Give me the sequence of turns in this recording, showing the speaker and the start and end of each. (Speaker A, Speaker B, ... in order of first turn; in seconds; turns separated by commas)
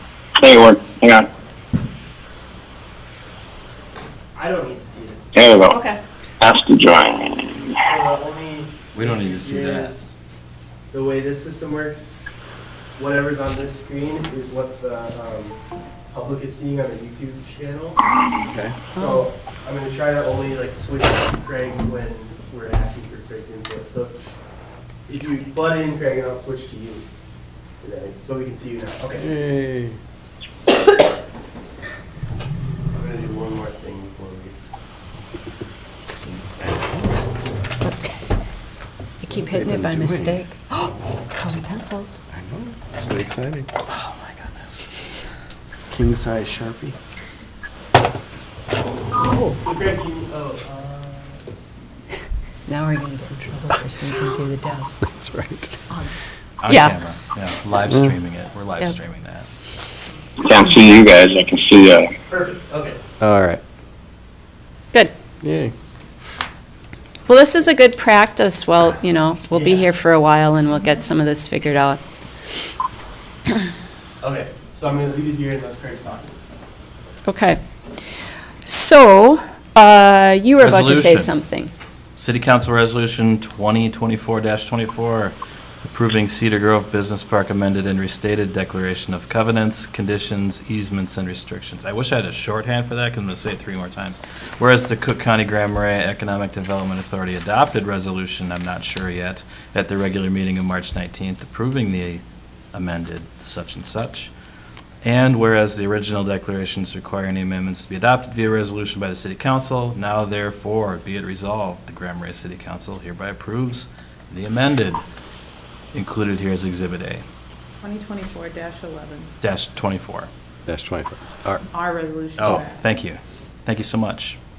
Speaker A: 0.4-1.3, Speaker B: 4.3-5.3, Speaker A: 5.3-5.8, Speaker C: 5.7-6.0, Speaker A: 6.4-7.8, Speaker B: 7.8-10.1, Speaker D: 8.9-9.9, Speaker B: 10.9-12.2, Speaker B: 13.0-15.6, Speaker B: 16.1-18.0, Speaker E: 18.5-18.8, Speaker B: 18.9-24.1, Speaker B: 25.1-27.0, Speaker B: 27.8-29.3, Speaker E: 29.2-30.0, Speaker B: 32.9-34.5, Speaker C: 36.0-36.4, Speaker E: 36.6-37.1, Speaker C: 37.8-38.3, Speaker C: 39.2-42.2, Speaker E: 39.3-40.4, Speaker E: 42.3-43.7, Speaker D: 43.9-44.8, Speaker E: 45.9-47.0, Speaker B: 49.6-51.6, Speaker C: 52.7-55.0, Speaker E: 55.0-55.8, Speaker D: 56.6-59.5, Speaker C: 56.7-57.0, Speaker A: 60.4-62.1, Speaker B: 62.3-63.0, Speaker E: 63.2-63.6, Speaker E: 65.4-65.7, Speaker C: 67.3-72.0, Speaker B: 69.5-69.9, Speaker B: 74.2-76.4, Speaker C: 77.2-77.6, Speaker C: 78.6-81.7, Speaker D: 80.6-81.3, Speaker D: 82.2-85.3, Speaker D: 85.9-104.3, Speaker D: 105.0-115.0, Speaker D: 115.9-117.2, Speaker F: 117.8-119.3, Speaker D: 119.4-120.3, Speaker E: 120.7-121.7, Speaker F: 121.7-122.8, Speaker E: 122.4-122.6, Speaker D: 122.4-124.4